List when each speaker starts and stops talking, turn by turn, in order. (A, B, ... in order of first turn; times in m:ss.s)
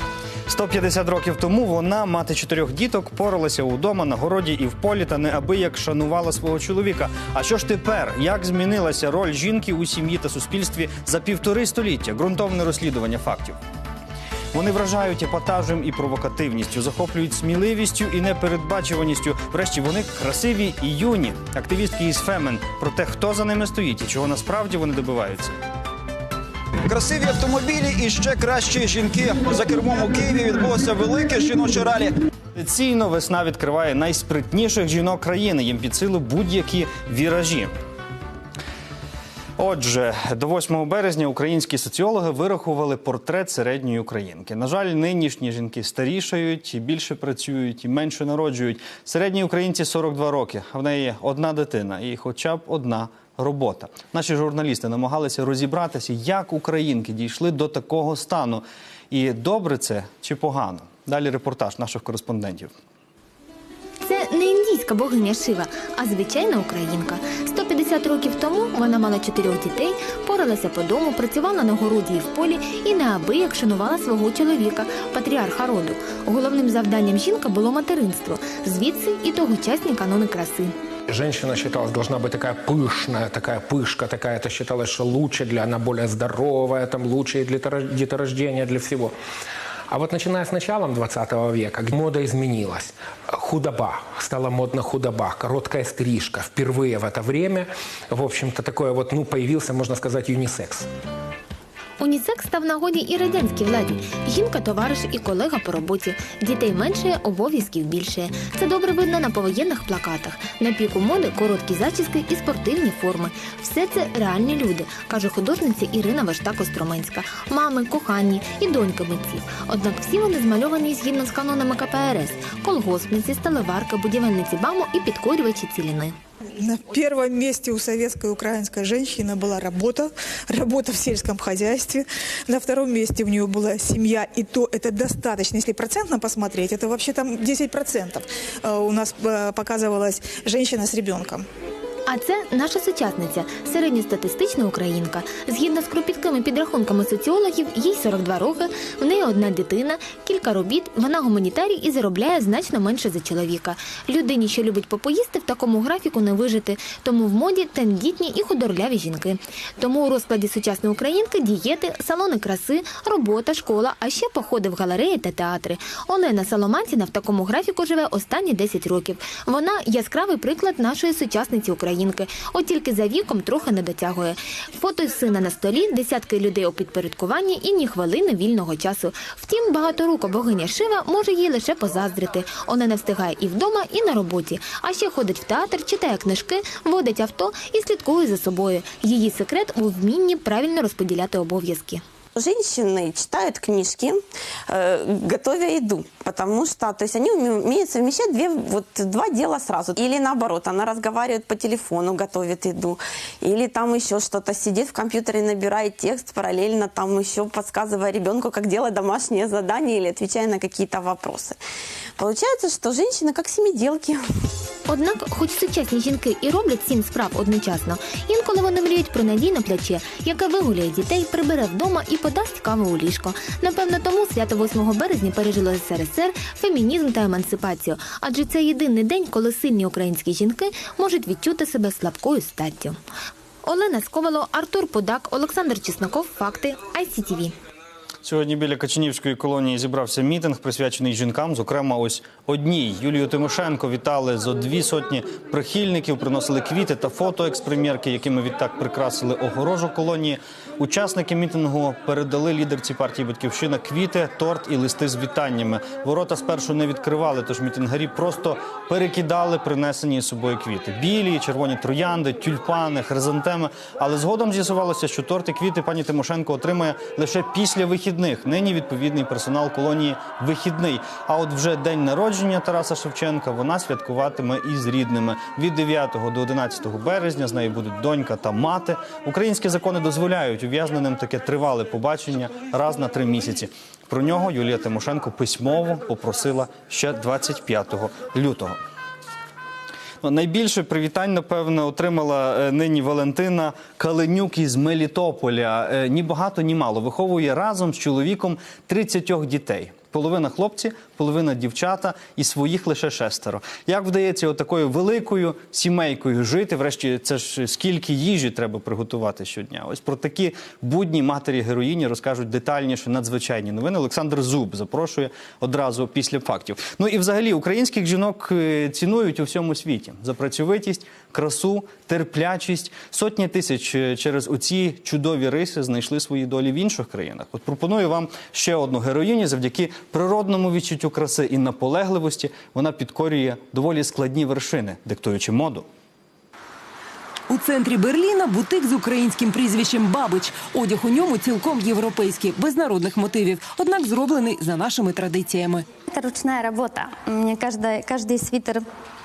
0:00.5-0:13.6 A
0:14.5-0:25.6 A
0:26.9-0:32.2 B
0:32.6-0:37.7 A
0:39.6-1:02.7 A
1:04.0-1:20.7 C
1:21.1-1:29.1 D
1:29.9-1:32.9 D
1:33.4-1:40.8 D
1:42.0-2:06.2 C
2:06.6-2:21.4 E
2:22.1-3:12.0 C
3:12.4-3:31.6 F
3:32.2-3:34.3 F
3:34.9-3:53.0 C
3:53.6-3:57.5 C
3:58.2-4:48.8 A
4:50.2-5:35.9 A
5:37.5-5:45.8 G
5:46.1-5:48.8 H